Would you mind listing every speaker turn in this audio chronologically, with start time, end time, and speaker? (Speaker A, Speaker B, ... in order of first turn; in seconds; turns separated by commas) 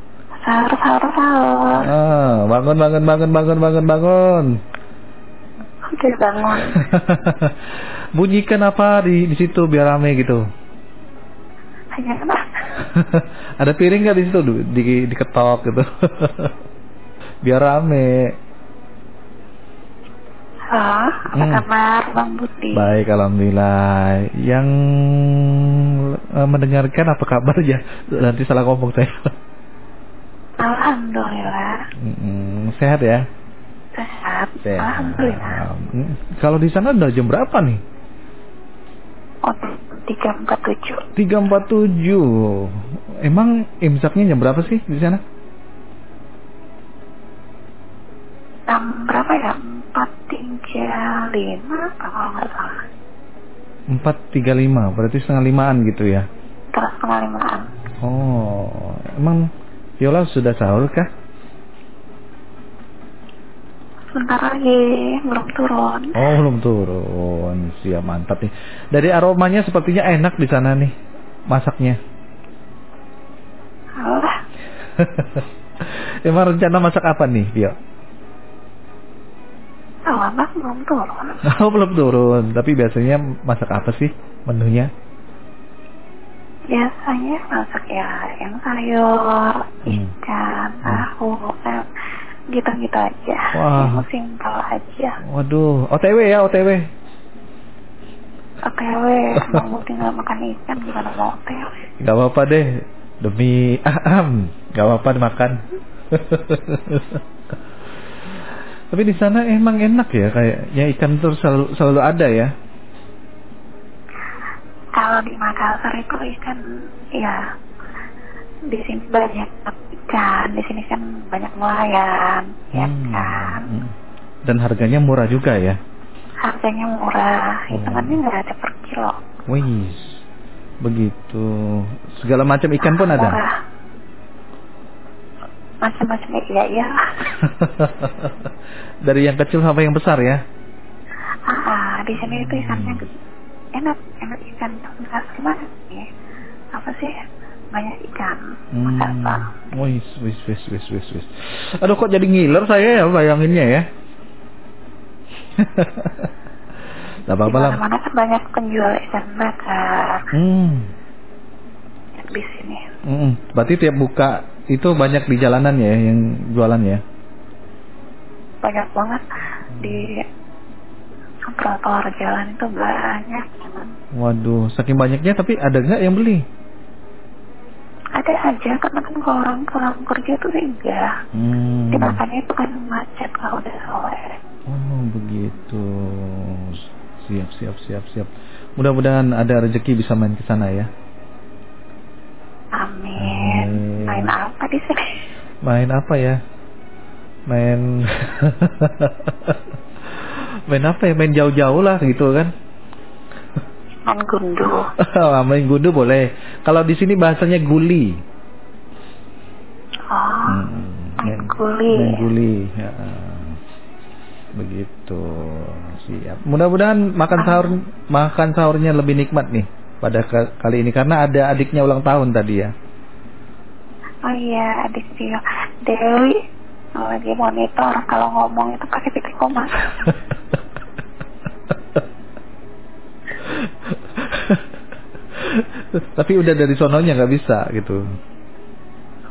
Speaker A: 0.4-1.9, Speaker B: 1.8-4.5, Speaker A: 5.9-6.8, Speaker B: 6.6-7.5, Speaker B: 8.2-10.4, Speaker A: 11.9-12.4, Speaker B: 12.8-16.5, Speaker B: 17.4-18.3, Speaker A: 20.7-22.9, Speaker B: 21.3-21.6, Speaker B: 22.7-29.3, Speaker A: 30.6-31.8, Speaker B: 32.0-33.2, Speaker A: 33.9-35.6, Speaker B: 34.6-37.8, Speaker A: 39.5-41.0, Speaker B: 41.2-42.7, Speaker B: 43.2-45.2, Speaker A: 48.7-52.8, Speaker B: 53.9-56.3, Speaker A: 56.7-57.7, Speaker B: 58.0-59.5, Speaker B: 60.0-61.1, Speaker A: 64.1-66.2, Speaker B: 66.2-70.9, Speaker B: 71.5-72.0, Speaker A: 74.0-74.3, Speaker B: 75.0-77.8, Speaker A: 80.1-81.4, Speaker B: 81.5-84.9, Speaker A: 86.7-91.9, Speaker B: 89.9-90.1, Speaker A: 92.5-95.2, Speaker B: 93.5-94.0, Speaker B: 95.2-96.9, Speaker A: 98.6-101.7, Speaker B: 102.0-107.2, Speaker B: 108.9-112.5, Speaker A: 115.0-116.6, Speaker A: 117.2-117.4, Speaker A: 118.7-123.7, Speaker B: 122.8-123.9, Speaker B: 124.5-125.8, Speaker A: 126.4-129.2, Speaker B: 127.7-128.2, Speaker B: 129.5-130.1, Speaker B: 130.8-133.4, Speaker A: 132.8-133.5, Speaker A: 135.8-137.3, Speaker B: 137.4-138.5, Speaker B: 139.1-140.4, Speaker A: 141.5-143.1, Speaker B: 142.2-143.0, Speaker A: 143.7-146.1, Speaker A: 146.7-147.1, Speaker A: 147.7-149.7, Speaker B: 148.8-153.9, Speaker B: 155.6-156.3, Speaker B: 157.3-157.8, Speaker A: 157.5-160.3, Speaker B: 160.3-160.9, Speaker A: 162.2-162.8, Speaker B: 163.1-167.0, Speaker A: 168.6-169.2, Speaker B: 169.8-170.1, Speaker A: 169.8-170.2, Speaker A: 171.5-173.9, Speaker B: 174.2-176.4, Speaker A: 178.2-181.1, Speaker B: 181.3-182.2, Speaker A: 181.9-184.4, Speaker B: 184.7-190.9, Speaker A: 192.8-195.2, Speaker B: 193.2-194.3, Speaker B: 195.7-196.4, Speaker B: 197.5-199.6, Speaker B: 200.2-202.5, Speaker A: 204.1-204.9, Speaker B: 205.0-208.2, Speaker A: 210.1-210.6, Speaker B: 210.5-213.6, Speaker A: 211.2-212.3, Speaker B: 214.6-222.7, Speaker A: 217.3-217.8, Speaker A: 224.2-226.4, Speaker A: 227.0-230.2, Speaker B: 233.4-234.6, Speaker B: 235.4-238.0